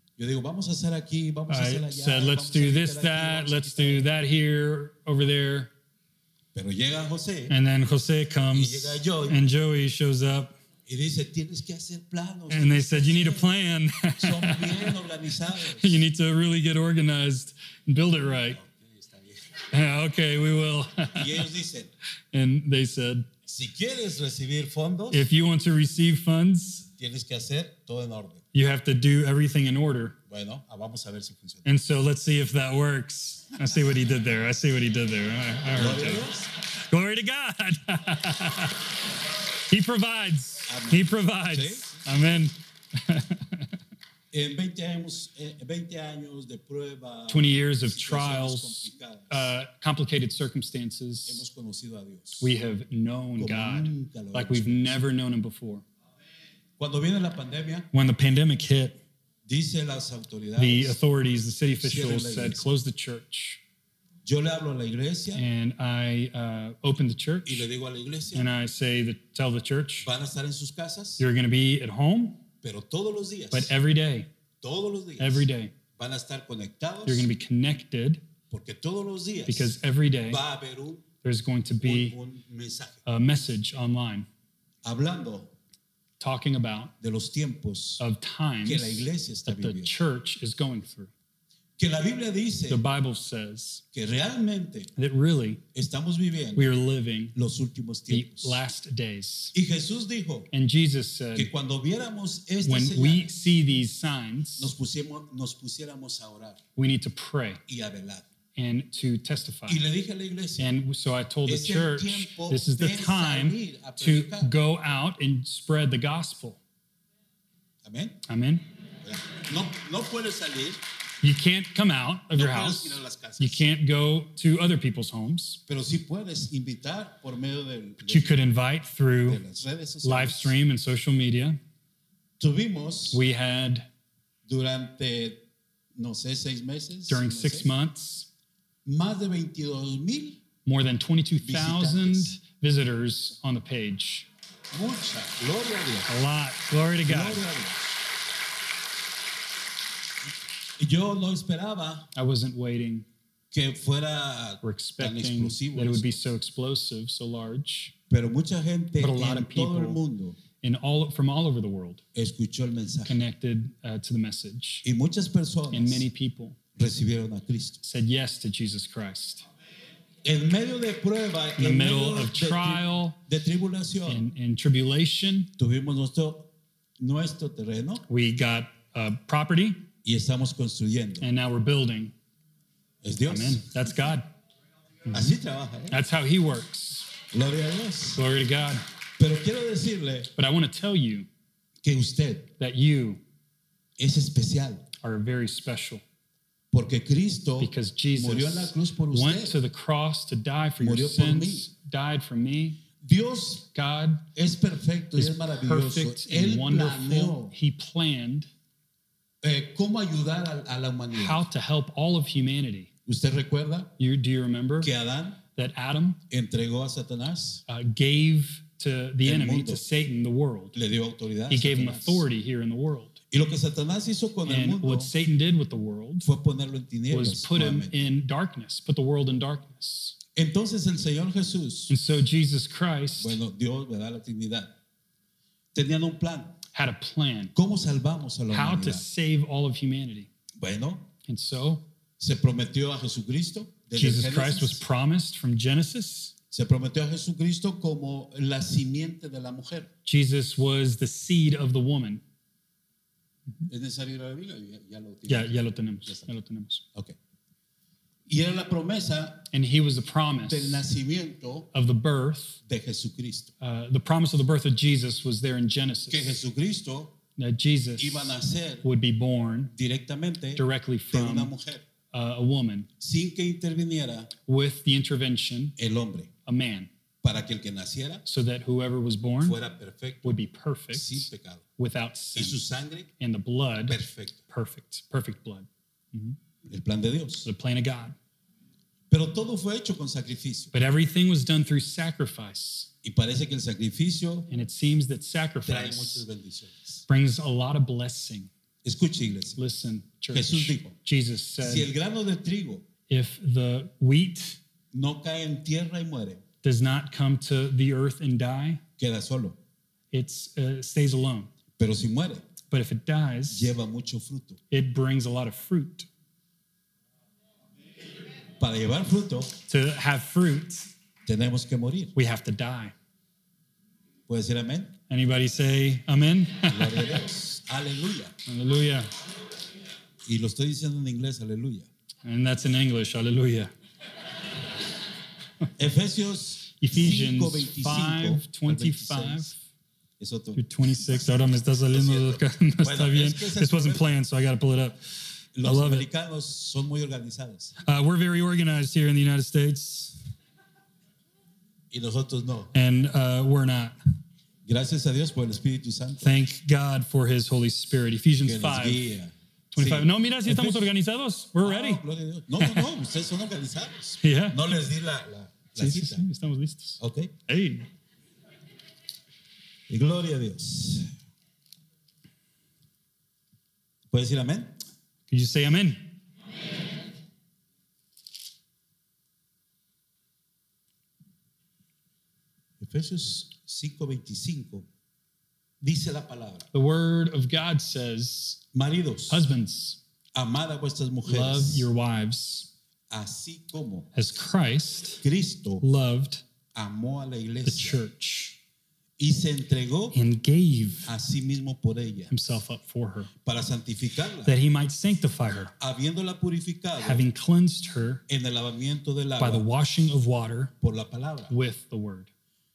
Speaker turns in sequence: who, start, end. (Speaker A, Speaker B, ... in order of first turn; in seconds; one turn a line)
Speaker A: 0.2-4.1
Speaker B: 1.5-5.7
Speaker A: 6.5-7.5
Speaker B: 7.5-10.5
Speaker A: 8.5-9.4
Speaker A: 10.8-13.5
Speaker B: 12.5-15.0
Speaker A: 14.2-16.0
Speaker B: 15.6-18.6
Speaker A: 18.3-19.4
Speaker B: 19.7-21.4
Speaker A: 21.1-21.9
Speaker B: 22.3-23.3
Speaker A: 23.4-25.3
Speaker B: 25.1-26.9
Speaker A: 27.0-28.4
Speaker B: 28.5-30.2
Speaker A: 30.3-31.7
Speaker B: 31.6-38.9
Speaker A: 35.7-36.5
Speaker B: 39.7-43.7
Speaker A: 40.7-42.2
Speaker A: 44.3-49.5
Speaker B: 47.3-51.4
Speaker A: 51.2-52.5
Speaker B: 52.4-55.8
Speaker A: 53.4-55.0
Speaker A: 56.8-57.9
Speaker B: 57.9-59.0
Speaker A: 59.4-61.0
Speaker B: 60.6-63.6
Speaker A: 61.7-62.7
Speaker A: 64.2-65.4
Speaker B: 65.3-67.7
Speaker A: 67.5-68.5
Speaker B: 68.3-70.1
Speaker A: 70.0-71.2
Speaker B: 71.2-72.4
Speaker A: 72.6-73.7
Speaker B: 73.5-74.3
Speaker A: 74.6-77.3
Speaker B: 75.2-75.7
Speaker B: 77.0-78.2
Speaker A: 78.5-79.7
Speaker B: 79.5-80.4
Speaker A: 80.3-81.0
Speaker B: 81.2-82.1
Speaker A: 81.8-83.0
Speaker B: 83.0-84.3
Speaker A: 84.8-85.5
Speaker B: 86.2-86.9
Speaker A: 87.0-88.0
Speaker B: 88.0-91.1
Speaker A: 88.6-89.9
Speaker A: 91.8-92.8
Speaker B: 92.7-93.8
Speaker A: 93.9-94.9
Speaker B: 95.0-95.6
Speaker A: 95.7-96.7
Speaker B: 96.5-97.3
Speaker A: 97.3-98.6
Speaker B: 98.1-99.5
Speaker A: 99.5-100.5
Speaker B: 100.5-101.5
Speaker A: 101.3-103.3
Speaker B: 102.6-104.7
Speaker A: 104.6-106.6
Speaker B: 106.8-107.6
Speaker A: 107.7-108.3
Speaker B: 108.5-109.8
Speaker A: 109.7-110.7
Speaker B: 110.6-116.6
Speaker A: 111.5-114.5
Speaker A: 117.8-118.2
Speaker B: 118.3-118.6
Speaker A: 119.0-120.8
Speaker B: 121.2-125.6
Speaker A: 122.3-123.7
Speaker A: 125.7-128.4
Speaker B: 128.0-129.4
Speaker A: 129.2-130.6
Speaker B: 130.0-131.6
Speaker A: 132.4-133.2
Speaker B: 133.1-133.9
Speaker A: 134.4-135.4
Speaker A: 135.9-137.7
Speaker B: 137.1-138.3
Speaker A: 138.8-140.4
Speaker B: 140.6-144.3
Speaker A: 141.4-142.3
Speaker A: 144.7-146.1
Speaker B: 146.1-147.4
Speaker A: 147.1-147.8
Speaker A: 150.8-152.1
Speaker B: 152.1-153.1
Speaker A: 153.5-156.1
Speaker B: 154.6-157.9
Speaker A: 158.1-160.4
Speaker B: 159.0-160.0
Speaker B: 160.6-162.0
Speaker A: 162.1-163.2
Speaker B: 163.1-164.8
Speaker A: 164.8-166.1
Speaker B: 165.7-166.6
Speaker A: 166.8-167.8
Speaker B: 167.8-169.4
Speaker A: 170.2-174.2
Speaker B: 171.6-173.2
Speaker B: 174.1-175.5
Speaker A: 175.6-178.1
Speaker B: 178.1-179.8
Speaker A: 180.0-181.3
Speaker B: 181.2-182.1
Speaker A: 183.0-183.7
Speaker B: 183.3-184.3
Speaker B: 185.1-185.3
Speaker A: 185.1-186.0
Speaker B: 185.9-187.1
Speaker A: 187.3-188.2
Speaker B: 188.1-188.8
Speaker A: 189.2-190.3
Speaker B: 190.3-191.3
Speaker A: 191.8-192.5
Speaker B: 192.6-193.2
Speaker A: 194.0-194.8
Speaker B: 195.0-196.0
Speaker A: 196.7-199.6
Speaker B: 197.6-202.8
Speaker A: 200.8-201.7
Speaker A: 203.0-203.7
Speaker B: 203.7-204.2
Speaker A: 204.3-207.5
Speaker B: 205.2-208.5
Speaker A: 209.4-211.4
Speaker B: 211.1-212.9
Speaker A: 213.1-213.9
Speaker B: 214.0-214.9
Speaker A: 214.8-215.4
Speaker B: 215.5-216.2
Speaker A: 216.3-217.6
Speaker B: 217.7-220.8
Speaker A: 219.2-219.8
Speaker A: 220.7-222.2
Speaker B: 221.5-223.2
Speaker A: 223.3-225.1
Speaker B: 224.4-226.3
Speaker A: 226.2-228.1
Speaker B: 227.1-230.2
Speaker A: 230.3-231.9
Speaker B: 231.9-233.4
Speaker A: 233.2-234.8
Speaker A: 235.7-236.6
Speaker B: 236.7-237.5
Speaker A: 237.5-239.1
Speaker B: 238.5-240.3
Speaker A: 240.6-241.1
Speaker B: 241.2-241.8
Speaker A: 242.2-244.8
Speaker B: 243.9-246.3
Speaker A: 246.5-249.9
Speaker B: 250.1-252.2
Speaker A: 253.7-256.3
Speaker B: 255.3-256.8
Speaker A: 258.3-259.5
Speaker B: 259.5-260.8
Speaker A: 260.4-261.7
Speaker B: 261.7-262.6
Speaker A: 262.6-263.5
Speaker B: 263.6-266.4
Speaker A: 266.1-267.2
Speaker B: 267.4-269.7
Speaker A: 268.0-268.8
Speaker A: 269.7-271.9
Speaker B: 270.6-271.5
Speaker B: 272.1-272.9
Speaker A: 273.0-274.3
Speaker B: 274.4-275.7
Speaker A: 275.8-276.3
Speaker B: 276.4-276.9
Speaker A: 277.2-278.2
Speaker B: 278.2-279.6
Speaker A: 279.4-280.4
Speaker B: 280.2-282.6
Speaker A: 280.9-281.6
Speaker A: 282.3-283.1
Speaker B: 283.2-286.4
Speaker A: 283.9-284.4
Speaker A: 286.6-287.5
Speaker B: 287.4-288.1
Speaker A: 289.1-290.7
Speaker B: 290.7-292.9
Speaker A: 293.0-294.5
Speaker B: 294.5-296.2
Speaker A: 295.6-297.0
Speaker B: 297.1-298.5
Speaker A: 298.8-299.6
Speaker B: 299.6-301.9
Speaker A: 300.3-300.9
Speaker A: 301.6-302.9
Speaker B: 303.1-304.6
Speaker A: 304.9-306.4
Speaker B: 306.6-308.8
Speaker A: 309.0-309.6
Speaker B: 310.1-311.5
Speaker A: 311.8-312.4
Speaker B: 312.7-313.7
Speaker A: 313.5-314.6
Speaker B: 314.7-316.1
Speaker A: 318.6-319.6
Speaker B: 319.7-320.9
Speaker A: 321.2-322.1
Speaker B: 322.1-322.9
Speaker A: 324.3-324.9
Speaker B: 325.1-327.2
Speaker A: 326.7-328.3
Speaker B: 328.4-329.1
Speaker A: 330.2-331.9
Speaker B: 332.2-333.7
Speaker A: 335.8-339.5
Speaker B: 336.8-339.6
Speaker A: 340.2-344.1
Speaker B: 340.5-345.0
Speaker A: 345.6-347.7
Speaker B: 345.6-346.1
Speaker B: 347.8-350.2
Speaker A: 351.9-352.7
Speaker B: 352.7-353.9
Speaker A: 354.6-356.4
Speaker B: 356.2-359.0
Speaker A: 358.4-360.9
Speaker B: 359.7-362.0
Speaker A: 361.6-366.2
Speaker B: 362.6-362.9
Speaker B: 364.2-364.7
Speaker B: 365.8-367.9
Speaker A: 367.0-367.3
Speaker A: 369.9-371.1
Speaker A: 374.1-374.8
Speaker B: 375.3-376.1
Speaker A: 382.8-384.9
Speaker A: 385.8-386.7
Speaker B: 386.7-388.6
Speaker A: 388.7-389.4
Speaker B: 389.3-390.0
Speaker A: 390.3-391.9
Speaker B: 391.2-392.7
Speaker A: 393.1-394.1
Speaker B: 394.1-395.2
Speaker A: 395.2-395.8
Speaker B: 395.8-396.4
Speaker A: 396.7-398.0
Speaker B: 397.6-398.6
Speaker A: 399.2-400.1
Speaker B: 400.1-401.1
Speaker A: 401.1-402.3
Speaker B: 402.3-403.3
Speaker A: 403.4-404.5
Speaker B: 404.4-405.7
Speaker A: 405.8-407.3
Speaker B: 407.0-408.2
Speaker A: 408.3-409.6
Speaker B: 409.4-410.7
Speaker A: 410.8-411.5
Speaker B: 411.5-412.3